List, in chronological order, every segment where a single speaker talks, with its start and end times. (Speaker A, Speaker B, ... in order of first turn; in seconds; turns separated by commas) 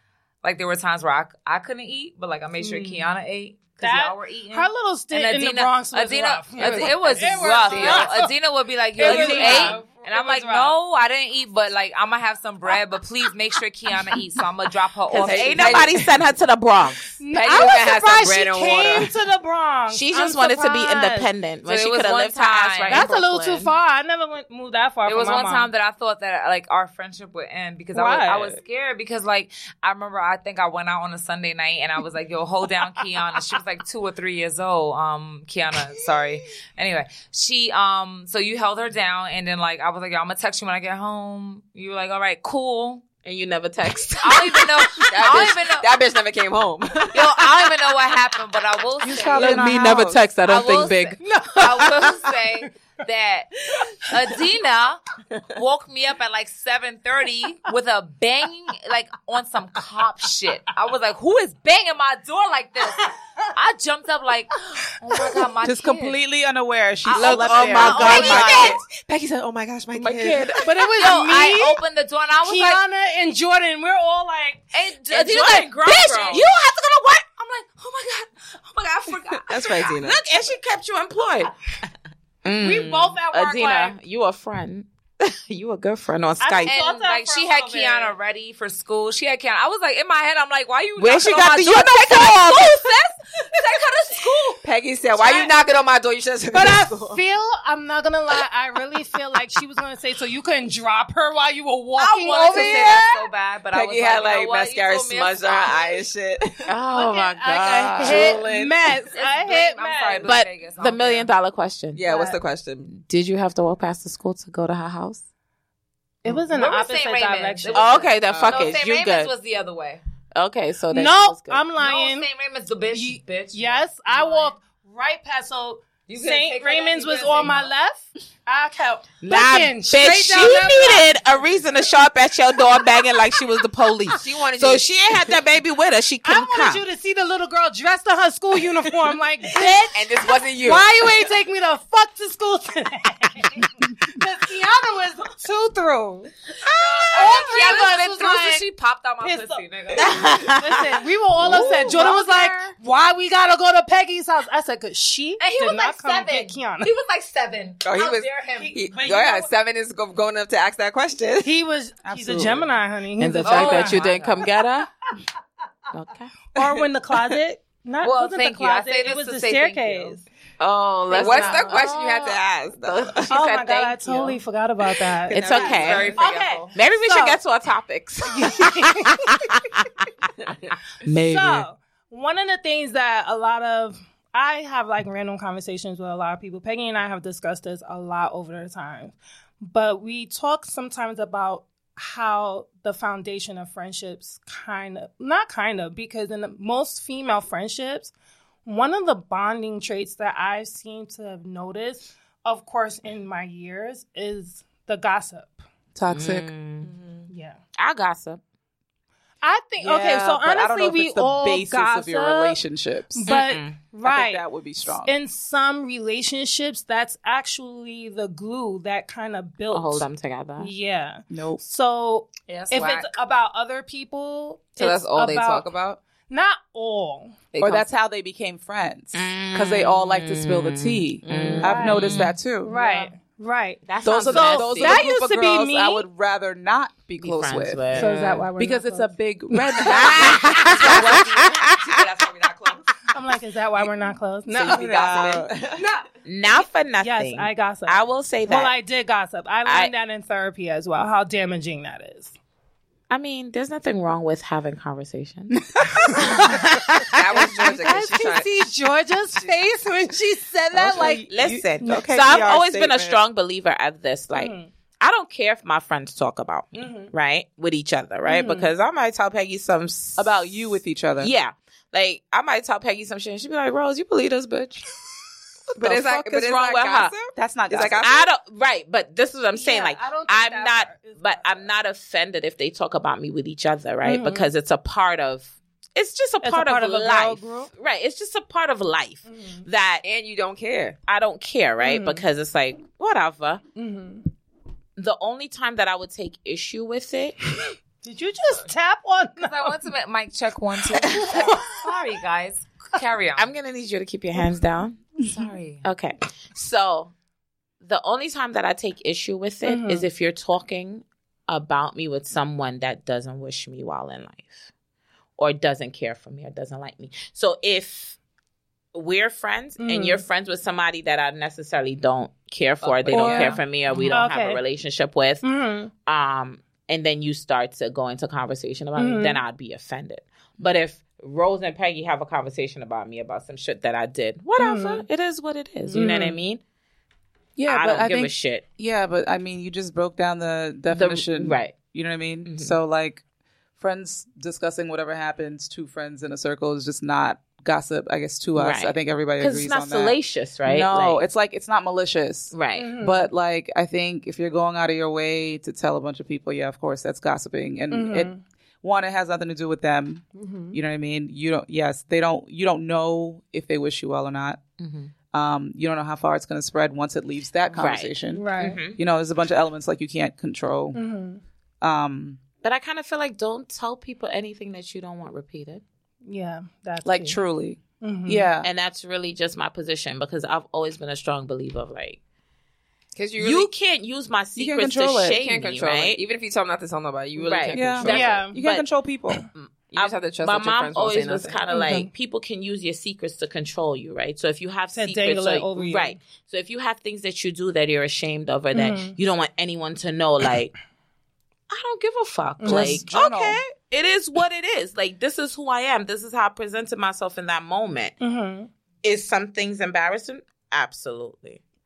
Speaker A: 0.4-15.9, Speaker B: 2.6-3.1, Speaker B: 3.8-8.3, Speaker C: 6.6-8.1, Speaker B: 9.0-10.8, Speaker D: 9.0-9.8, Speaker D: 15.1-17.1, Speaker C: 15.2-16.2, Speaker B: 17.2-21.3, Speaker C: 17.3-19.1, Speaker D: 19.9-23.7, Speaker A: 21.6-23.1, Speaker B: 22.9-25.7, Speaker A: 25.0-43.0, Speaker B: 27.9-28.6, Speaker D: 43.2-45.4, Speaker A: 44.2-45.9, Speaker C: 45.0-47.3, Speaker A: 47.1-49.8, Speaker E: 49.0-50.2, Speaker D: 49.4-51.0, Speaker C: 49.4-51.0, Speaker A: 50.4-53.5, Speaker B: 51.2-52.6, Speaker B: 53.8-54.3, Speaker A: 54.0-55.0, Speaker A: 55.5-66.2, Speaker B: 64.7-65.3, Speaker E: 65.6-68.8, Speaker A: 67.0-68.8, Speaker D: 67.1-68.8, Speaker C: 67.3-70.6, Speaker D: 70.0-70.7, Speaker B: 70.6-71.8, Speaker A: 70.9-72.8, Speaker B: 72.4-74.6, Speaker A: 74.7-76.6, Speaker D: 75.1-77.2, Speaker A: 77.3-79.9, Speaker C: 79.4-80.2, Speaker D: 79.9-81.5, Speaker D: 82.4-86.8, Speaker B: 82.5-84.0, Speaker B: 86.4-88.2, Speaker A: 86.6-94.6, Speaker D: 91.0-92.9, Speaker C: 94.6-97.2, Speaker B: 96.5-103.0, Speaker A: 102.0-106.0, Speaker C: 102.2-106.7, Speaker D: 106.7-108.4, Speaker B: 106.9-110.3, Speaker C: 107.6-108.8, Speaker A: 109.1-111.3, Speaker D: 110.2-112.1, Speaker C: 111.9-113.0, Speaker B: 112.1-112.3, Speaker D: 113.0-115.2, Speaker B: 116.2-118.0, Speaker A: 116.5-120.0, Speaker D: 117.7-119.3, Speaker C: 118.2-118.8, Speaker D: 120.3-121.6, Speaker B: 120.9-122.3, Speaker A: 121.8-124.5, Speaker B: 122.9-131.2, Speaker A: 126.1-127.7, Speaker D: 129.2-136.8, Speaker C: 134.2-134.9, Speaker B: 136.2-146.3, Speaker D: 139.6-139.8, Speaker C: 139.9-140.9, Speaker A: 146.7-150.2, Speaker B: 147.0-148.7, Speaker B: 149.2-156.9, Speaker D: 150.0-152.7, Speaker A: 155.4-158.8, Speaker C: 157.8-161.5, Speaker B: 158.6-159.5, Speaker B: 161.4-164.1, Speaker E: 162.0-162.7, Speaker D: 163.2-164.9, Speaker A: 163.4-164.4, Speaker D: 165.9-166.3, Speaker B: 166.5-170.2, Speaker C: 166.6-167.3, Speaker A: 168.0-170.2, Speaker D: 170.6-174.4, Speaker C: 171.1-173.4, Speaker B: 171.1-171.9, Speaker B: 173.3-177.4, Speaker D: 175.2-176.2, Speaker C: 175.3-176.2, Speaker A: 175.6-176.7, Speaker D: 176.7-180.1, Speaker B: 178.2-179.2, Speaker D: 181.1-181.6, Speaker B: 181.1-198.1, Speaker B: 198.6-205.6, Speaker E: 205.9-206.5, Speaker D: 206.1-206.9, Speaker C: 206.8-207.3, Speaker B: 207.3-207.6, Speaker D: 207.8-208.4, Speaker B: 209.4-212.6, Speaker E: 209.8-213.3, Speaker B: 213.1-227.4, Speaker D: 213.2-213.8, Speaker E: 214.0-215.1, Speaker D: 219.7-220.7, Speaker E: 221.3-221.6, Speaker A: 222.5-223.1, Speaker C: 224.8-226.0, Speaker C: 227.5-227.9, Speaker E: 227.6-232.8, Speaker D: 229.1-232.3, Speaker C: 231.2-232.2, Speaker B: 231.6-236.1, Speaker A: 232.7-233.1, Speaker D: 233.8-235.0, Speaker E: 234.0-241.3, Speaker D: 237.2-238.4, Speaker B: 237.9-240.2, Speaker D: 239.9-241.5, Speaker A: 240.4-242.9, Speaker B: 243.1-245.2, Speaker C: 244.5-245.9, Speaker E: 244.6-245.6, Speaker D: 246.2-248.8, Speaker B: 247.0-252.3, Speaker D: 249.7-249.9, Speaker D: 253.1-256.5, Speaker E: 255.7-256.8, Speaker B: 256.1-261.3, Speaker C: 257.1-259.5, Speaker E: 260.7-263.2, Speaker D: 260.9-274.9, Speaker B: 261.8-262.4, Speaker B: 264.3-264.7, Speaker B: 266.7-267.1, Speaker B: 268.2-268.7, Speaker E: 270.2-271.3, Speaker C: 275.8-278.2, Speaker D: 275.8-277.1, Speaker E: 277.3-278.1, Speaker D: 278.0-290.0, Speaker B: 279.5-281.7, Speaker B: 284.0-284.5, Speaker B: 286.4-287.7, Speaker B: 289.3-289.6, Speaker C: 290.0-291.0, Speaker D: 291.1-293.6, Speaker B: 291.8-292.2, Speaker B: 293.7-294.3, Speaker D: 295.0-297.4, Speaker B: 298.0-299.8, Speaker A: 299.4-303.5, Speaker B: 301.0-301.8, Speaker D: 303.4-305.1, Speaker A: 305.2-305.8, Speaker D: 305.8-307.1, Speaker D: 307.8-314.7, Speaker B: 309.6-310.1, Speaker D: 315.4-318.2, Speaker D: 318.9-325.5, Speaker B: 319.8-320.2, Speaker A: 322.8-324.1, Speaker E: 323.1-324.1, Speaker B: 323.1-323.5, Speaker B: 324.1-324.6, Speaker B: 325.4-325.9, Speaker D: 326.1-336.6, Speaker B: 328.9-329.4, Speaker B: 334.6-335.1, Speaker B: 335.9-336.4, Speaker E: 335.9-336.3, Speaker E: 337.6-343.2, Speaker D: 337.7-338.6, Speaker D: 340.9-341.8, Speaker D: 342.4-342.8, Speaker E: 343.8-364.6, Speaker D: 348.5-351.2, Speaker D: 352.5-352.9, Speaker B: 352.7-353.3, Speaker B: 357.9-358.4, Speaker B: 360.4-360.8, Speaker D: 364.8-365.1, Speaker E: 365.3-371.0, Speaker D: 367.7-369.0, Speaker B: 368.3-368.8, Speaker B: 370.9-371.4, Speaker E: 371.8-372.4, Speaker D: 372.6-375.8, Speaker B: 376.2-377.4, Speaker E: 377.0-378.7, Speaker B: 378.0-378.5, Speaker D: 378.6-382.2, Speaker C: 383.1-383.7, Speaker D: 383.4-386.2, Speaker E: 384.6-385.4, Speaker C: 385.4-388.4, Speaker D: 387.4-388.9, Speaker E: 387.7-389.4, Speaker B: 388.0-388.6, Speaker D: 389.5-400.7, Speaker C: 389.9-391.6, Speaker B: 391.7-392.1, Speaker B: 394.9-396.2, Speaker B: 398.7-399.2, Speaker D: 401.7-408.2, Speaker B: 402.6-403.1, Speaker E: 402.6-403.6, Speaker B: 408.2-408.7, Speaker D: 409.0-411.6